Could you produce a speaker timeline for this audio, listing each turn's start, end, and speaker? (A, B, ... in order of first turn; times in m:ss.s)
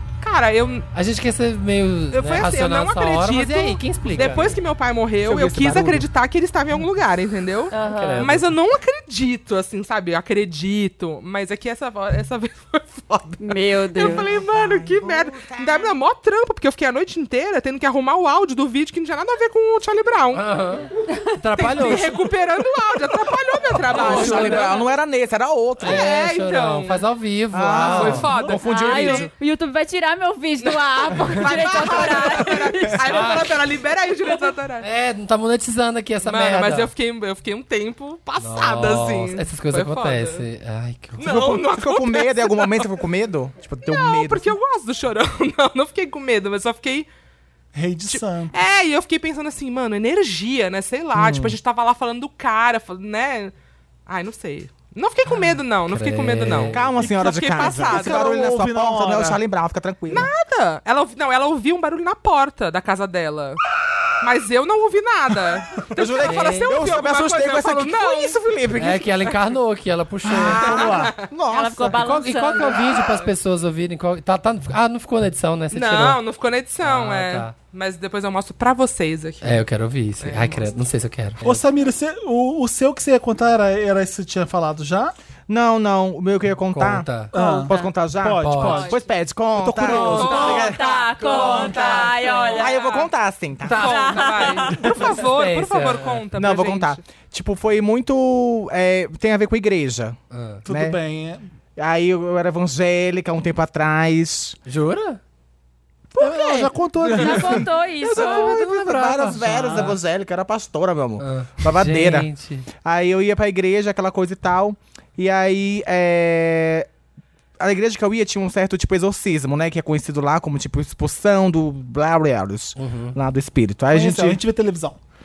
0:00.2-0:00.9 A
0:00.9-0:04.6 B
0:02.1-0:20.4 A
0:05.2-0:06.1 C
0:07.7-0:08.3 D
0:07.8-0:08.5 B
0:13.4-0:14.3 D
0:14.0-0:16.0 C
0:20.3-0:22.2 B
0:21.6-0:24.8 A
0:23.9-0:26.1 C
0:23.9-0:24.8 B
0:25.8-0:28.3 B
0:25.8-0:27.0 A
0:27.5-0:29.3 C
0:27.8-0:29.3 A
0:28.6-0:33.0 D
0:30.6-0:34.9 A
0:33.0-0:33.6 B
0:34.8-0:36.9 B
0:36.2-0:40.4 A
0:38.4-0:41.2 B
0:41.2-0:42.9 A
0:41.2-0:44.6 C
0:43.8-0:47.1 A
0:47.7-0:48.6 E
0:48.1-0:53.5 A
0:51.2-0:51.6 C
0:54.1-0:58.3 A
0:55.9-0:56.9 B
0:56.6-1:00.3 C
0:57.0-0:59.4 E
1:00.1-1:03.6 A
1:04.2-1:08.4 A
1:05.8-1:09.4 C
1:06.2-1:06.8 B
1:08.8-1:10.9 B
1:10.2-1:11.1 E
1:10.3-1:12.1 C
1:10.8-1:11.3 A
1:11.5-1:13.0 D
1:11.9-1:16.2 B
1:15.7-1:19.6 A
1:16.8-1:17.5 B
1:19.4-1:21.6 B
1:20.2-1:20.8 A
1:21.4-1:25.1 E
1:25.5-1:27.1 C
1:26.7-1:27.3 B
1:27.3-1:28.9 E
1:27.3-1:27.9 D
1:27.6-1:30.8 C
1:28.4-1:28.9 B
1:29.6-1:30.6 E
1:29.9-1:30.7 B
1:30.1-1:32.7 D
1:30.1-1:33.1 A
1:31.2-1:32.5 B
1:31.4-1:31.6 C
1:32.6-1:33.9 C
1:33.6-1:36.2 B
1:33.7-1:37.0 A
1:33.8-1:34.7 D
1:34.7-1:35.1 C
1:36.4-1:40.2 C
1:40.3-1:40.6 B
1:40.6-1:41.5 E
1:40.7-1:41.0 C
1:41.8-1:44.6 C
1:44.7-1:45.2 B
1:46.2-1:47.7 E
1:46.2-1:52.3 C
1:47.0-1:48.6 D
1:48.0-1:50.0 B
1:49.2-1:49.9 E
1:51.2-1:52.7 B
1:52.8-1:56.9 C
1:57.6-2:04.4 C
2:02.8-2:03.2 B
2:03.9-2:05.0 E